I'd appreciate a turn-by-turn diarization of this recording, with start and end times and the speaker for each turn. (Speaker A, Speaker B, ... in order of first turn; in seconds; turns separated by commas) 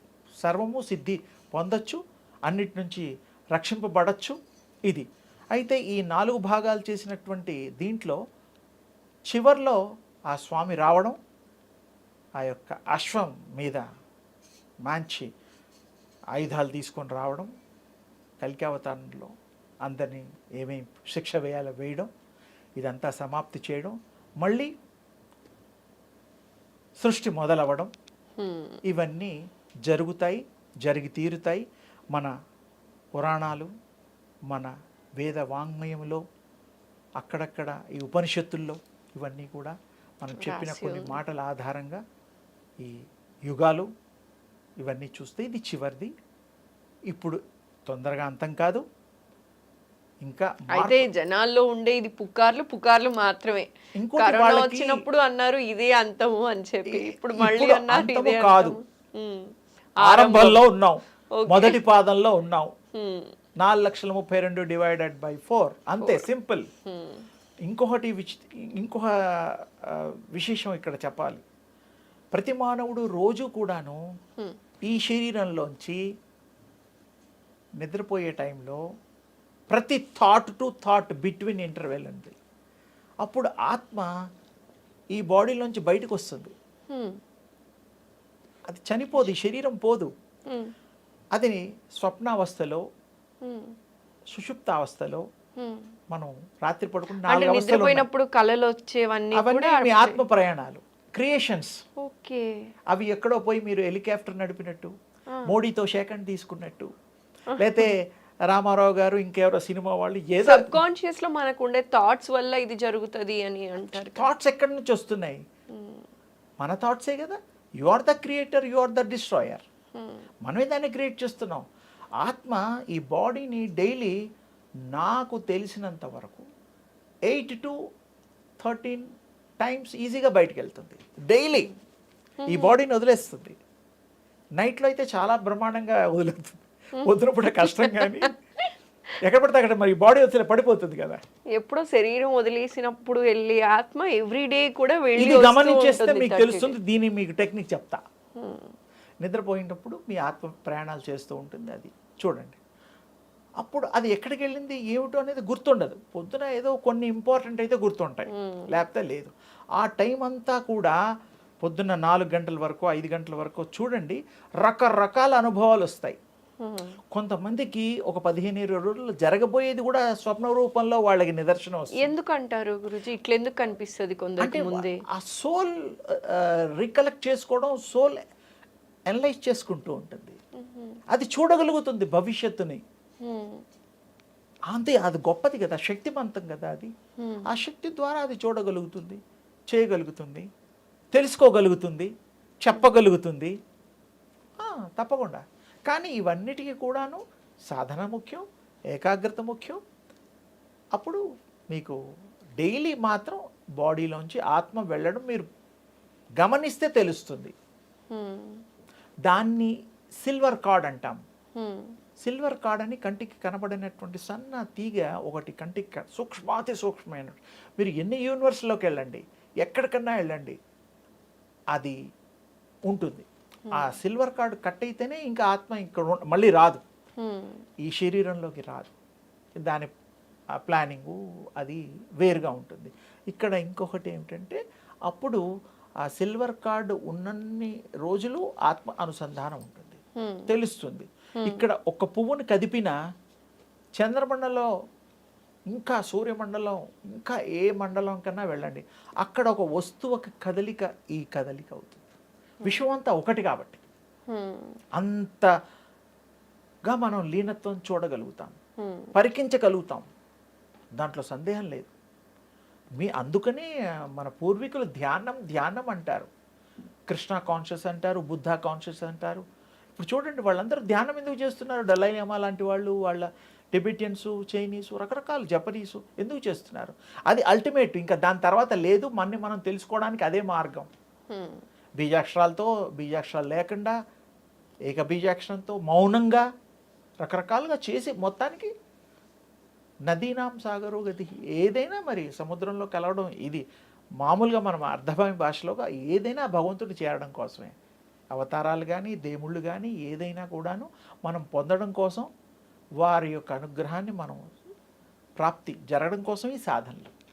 Speaker A: 0.4-4.4, Speaker A: 4.9-8.2, Speaker A: 9.3-9.8, Speaker A: 10.3-11.2, Speaker A: 12.4-13.8, Speaker A: 14.9-15.3, Speaker A: 16.4-17.5, Speaker A: 18.4-19.3, Speaker A: 19.9-22.1, Speaker A: 22.8-24.7, Speaker A: 27.0-27.9, Speaker B: 28.4-28.8, Speaker A: 28.9-29.3, Speaker A: 29.9-32.3, Speaker A: 33.2-33.7, Speaker A: 34.5-36.2, Speaker A: 37.2-42.0, Speaker B: 40.4-41.2, Speaker A: 42.8-43.9, Speaker A: 44.8-46.1, Speaker A: 47.1-48.8, Speaker A: 50.2-51.1, Speaker B: 50.8-59.5, Speaker A: 54.0-55.0, Speaker A: 56.9-58.8, Speaker A: 60.0-62.7, Speaker B: 60.0-60.6, Speaker B: 61.3-61.8, Speaker B: 63.0-63.3, Speaker A: 63.6-66.7, Speaker B: 66.0-66.3, Speaker B: 66.9-67.3, Speaker A: 67.7-71.4, Speaker A: 72.3-74.0, Speaker A: 74.9-76.0, Speaker A: 77.8-78.8, Speaker A: 79.7-82.4, Speaker A: 83.2-84.1, Speaker A: 85.2-86.5, Speaker B: 86.9-87.2, Speaker A: 88.7-90.1, Speaker A: 91.3-92.8, Speaker B: 93.4-93.7, Speaker A: 94.3-95.2, Speaker B: 95.6-95.8, Speaker A: 96.1-98.1, Speaker B: 97.3-100.2, Speaker A: 99.3-101.8, Speaker B: 102.0-102.5, Speaker A: 102.9-104.9, Speaker A: 105.5-106.9, Speaker B: 107.5-107.9, Speaker A: 107.6-110.8, Speaker B: 110.4-114.3, Speaker A: 113.9-115.4, Speaker B: 115.8-116.0, Speaker A: 116.6-119.6, Speaker B: 120.0-120.2, Speaker A: 120.5-121.7, Speaker A: 122.2-124.2, Speaker A: 124.9-126.5, Speaker A: 127.3-127.8, Speaker A: 128.6-129.1, Speaker A: 129.6-131.7, Speaker B: 132.4-132.7, Speaker A: 132.5-133.6, Speaker A: 134.6-138.3, Speaker B: 137.3-138.3, Speaker A: 139.2-141.2, Speaker B: 141.6-146.8, Speaker A: 145.2-148.0, Speaker B: 148.4-148.7, Speaker A: 149.2-152.6, Speaker A: 153.6-161.0, Speaker B: 158.3-158.7, Speaker A: 161.6-166.2, Speaker B: 166.6-167.0, Speaker A: 167.1-172.1, Speaker B: 172.0-175.0, Speaker A: 174.4-178.2, Speaker A: 179.1-180.4, Speaker B: 180.6-181.0, Speaker A: 181.1-182.8, Speaker B: 183.2-183.6, Speaker A: 184.7-186.9, Speaker B: 187.2-187.5, Speaker A: 187.5-190.5, Speaker A: 191.1-192.1, Speaker A: 192.6-193.6, Speaker A: 194.6-198.4, Speaker A: 198.9-199.8, Speaker A: 201.0-201.2, Speaker A: 201.7-202.0, Speaker A: 202.6-205.5, Speaker A: 206.4-207.5, Speaker B: 208.1-208.6, Speaker A: 209.3-209.7, Speaker A: 210.2-211.2, Speaker B: 211.6-211.9, Speaker A: 212.2-220.6, Speaker A: 222.9-226.8, Speaker B: 223.7-223.9, Speaker B: 227.2-227.6, Speaker A: 227.8-228.9, Speaker A: 229.6-229.9, Speaker A: 230.6-235.4, Speaker A: 236.1-243.0, Speaker B: 240.2-240.5, Speaker A: 244.0-244.7, Speaker A: 245.7-252.0, Speaker A: 252.7-253.8, Speaker B: 254.3-254.8, Speaker A: 254.9-255.5, Speaker A: 256.9-258.6, Speaker B: 258.8-259.1, Speaker A: 259.1-260.1, Speaker A: 261.0-261.9, Speaker A: 263.0-266.3, Speaker A: 267.1-269.4, Speaker A: 270.0-280.9, Speaker B: 281.3-281.6, Speaker A: 282.0-283.9, Speaker A: 284.9-286.4, Speaker A: 287.2-288.7, Speaker A: 290.1-293.6, Speaker A: 294.2-297.7, Speaker A: 298.3-302.3, Speaker A: 303.0-304.4, Speaker A: 305.4-307.1